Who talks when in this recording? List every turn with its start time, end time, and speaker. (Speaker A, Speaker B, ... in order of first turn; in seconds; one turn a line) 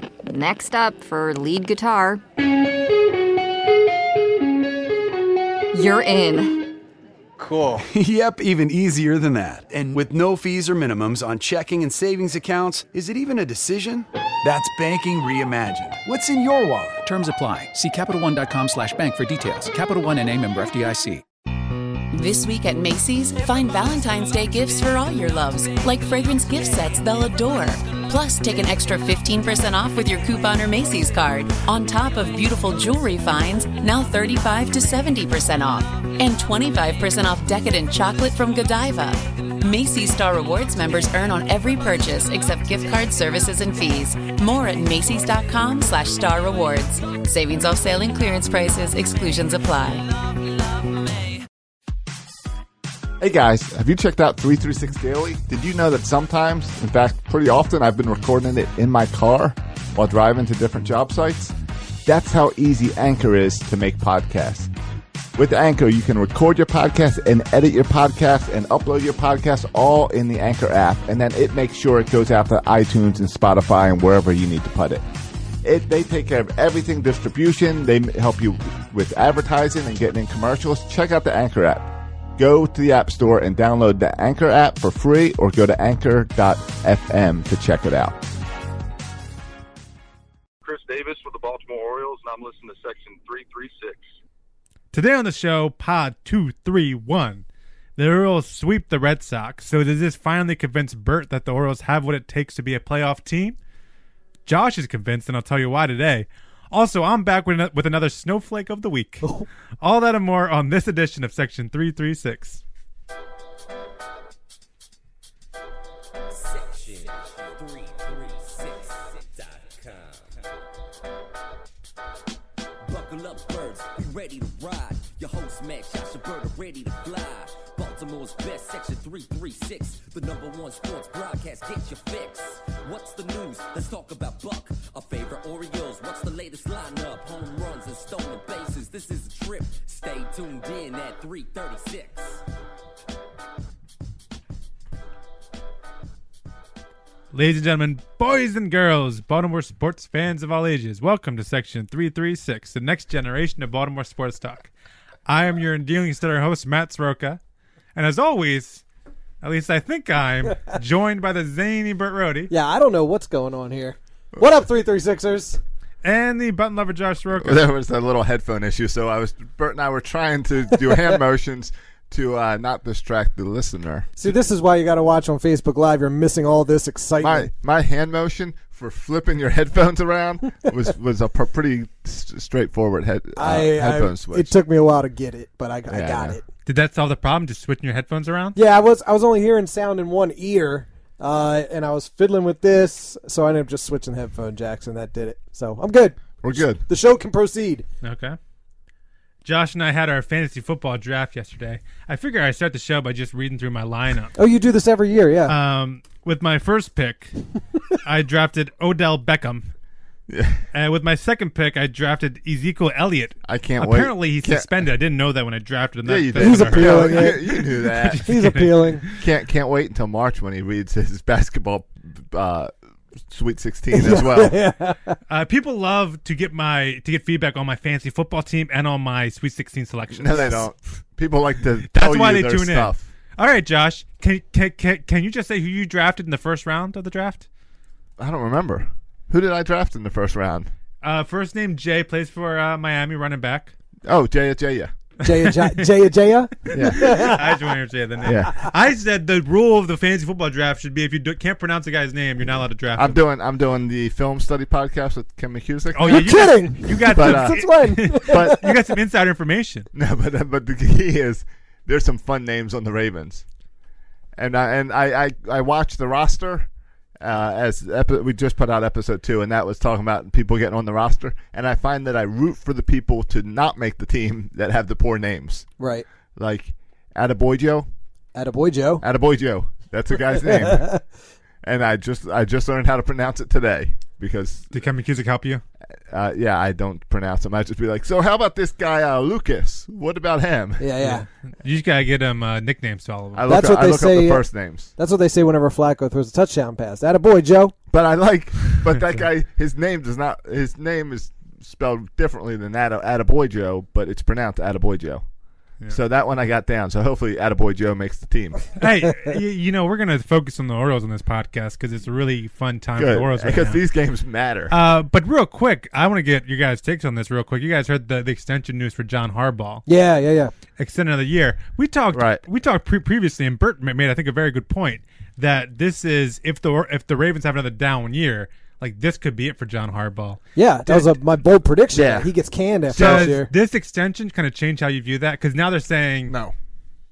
Speaker A: 0.2-2.2
Speaker A: 5.7-6.6
Speaker B: 7.4-17.1
Speaker C: 17.1-21.2
Speaker D: 22.1-50.1
Speaker E: 53.2-64.7
Speaker E: 65.3-75.0
Speaker E: 75.6-88.2
Speaker F: 90.6-94.1
Speaker G: 94.9-97.4
Speaker G: 98.0-103.6
Speaker G: 104.4-109.3
Speaker G: 109.8-112.6
Speaker H: 116.3-120.3
Speaker H: 122.8-142.4
Speaker G: 147.3-154.7
Speaker G: 155.3-157.4
Speaker G: 157.9-158.8
Speaker G: 159.4-162.5
Speaker I: 162.5-165.6
Speaker G: 166.0-167.7
Speaker E: 167.4-174.1
Speaker I: 174.2-177.5
Speaker E: 177.2-184.5
Speaker I: 183.3-186.4
Speaker E: 185.9-186.4
Speaker G: 186.7-188.6
Speaker I: 188.5-197.8
Speaker E: 196.4-196.8
Speaker G: 198.0-198.4
Speaker G: 199.4-204.3
Speaker I: 204.3-205.5
Speaker G: 205.5-207.4
Speaker G: 208.0-209.7
Speaker E: 210.3-210.6
Speaker G: 210.7-219.2
Speaker E: 213.4-214.7
Speaker E: 216.0-218.3
Speaker I: 216.4-217.6
Speaker I: 218.2-219.0
Speaker E: 219.2-222.7
Speaker E: 223.3-224.6
Speaker I: 223.9-225.2
Speaker G: 225.3-230.6
Speaker E: 230.1-233.1
Speaker G: 231.9-237.4
Speaker E: 238.2-240.7
Speaker G: 241.0-243.7
Speaker E: 244.1-244.9
Speaker I: 245.2-247.4
Speaker G: 245.2-245.9
Speaker E: 246.7-247.3
Speaker G: 246.8-253.2
Speaker E: 248.2-248.5
Speaker E: 252.9-256.5
Speaker G: 255.9-259.9
Speaker I: 256.1-258.7
Speaker E: 257.1-258.6
Speaker E: 259.9-263.4
Speaker E: 264.4-266.7
Speaker E: 267.2-275.7
Speaker I: 275.8-276.1
Speaker E: 276.4-277.9
Speaker I: 278.3-279.0
Speaker E: 279.0-280.9
Speaker I: 280.2-281.0
Speaker E: 281.6-284.8
Speaker G: 284.7-285.6
Speaker E: 286.1-290.9
Speaker I: 290.8-291.2
Speaker G: 291.0-293.6
Speaker E: 293.3-294.9
Speaker I: 293.5-294.4
Speaker I: 295.0-297.7
Speaker E: 297.9-305.2
Speaker E: 305.9-308.7
Speaker G: 308.8-313.8
Speaker E: 313.0-314.7
Speaker G: 314.7-319.8
Speaker I: 319.9-320.5
Speaker G: 320.8-331.1
Speaker E: 322.1-322.4
Speaker I: 330.6-333.5
Speaker E: 331.9-332.3
Speaker E: 332.9-333.4
Speaker G: 332.9-336.3
Speaker E: 336.3-336.5